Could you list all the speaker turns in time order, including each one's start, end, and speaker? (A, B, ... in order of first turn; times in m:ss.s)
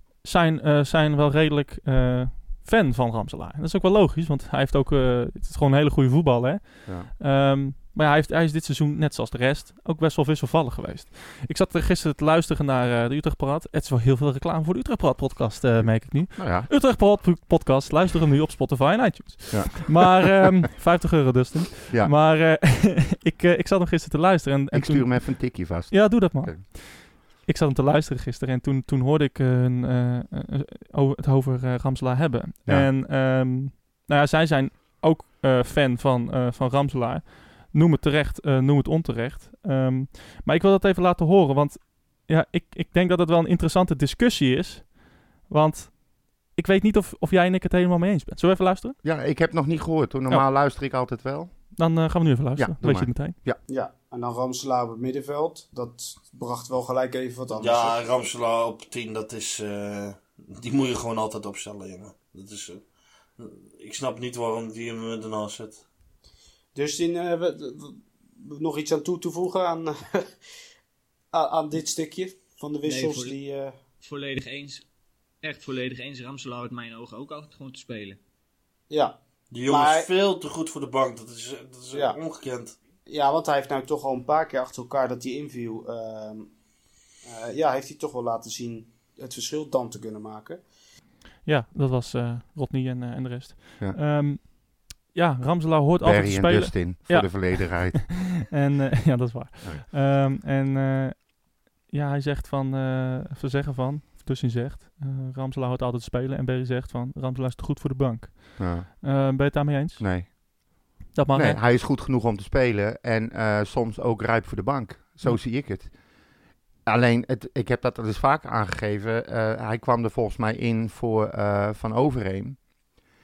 0:00.2-0:49.0 A
0:15.8-0:16.7 B
0:19.5-0:20.4 B
0:24.7-0:26.6 B
0:49.0-0:51.8 B
0:51.7-0:53.4 A
0:52.6-0:53.6 B
0:53.7-0:58.0 C
0:57.6-1:02.9 D
1:03.4-1:05.8 D
1:06.8-1:10.2 C
1:11.3-1:13.8 C
1:12.8-1:13.4 E
1:14.0-1:14.9 E
1:15.4-1:18.2 E
1:18.9-1:20.1 C
1:19.5-1:22.8 D
1:21.9-1:22.2 C
1:23.1-1:26.5 C
1:27.3-1:30.6 C
1:31.4-1:50.3 A
1:36.0-1:38.4 B
1:48.6-1:48.9 B
1:50.0-1:50.3 B
1:51.1-1:51.6 A
1:51.3-1:55.9 B
1:56.9-2:02.6 B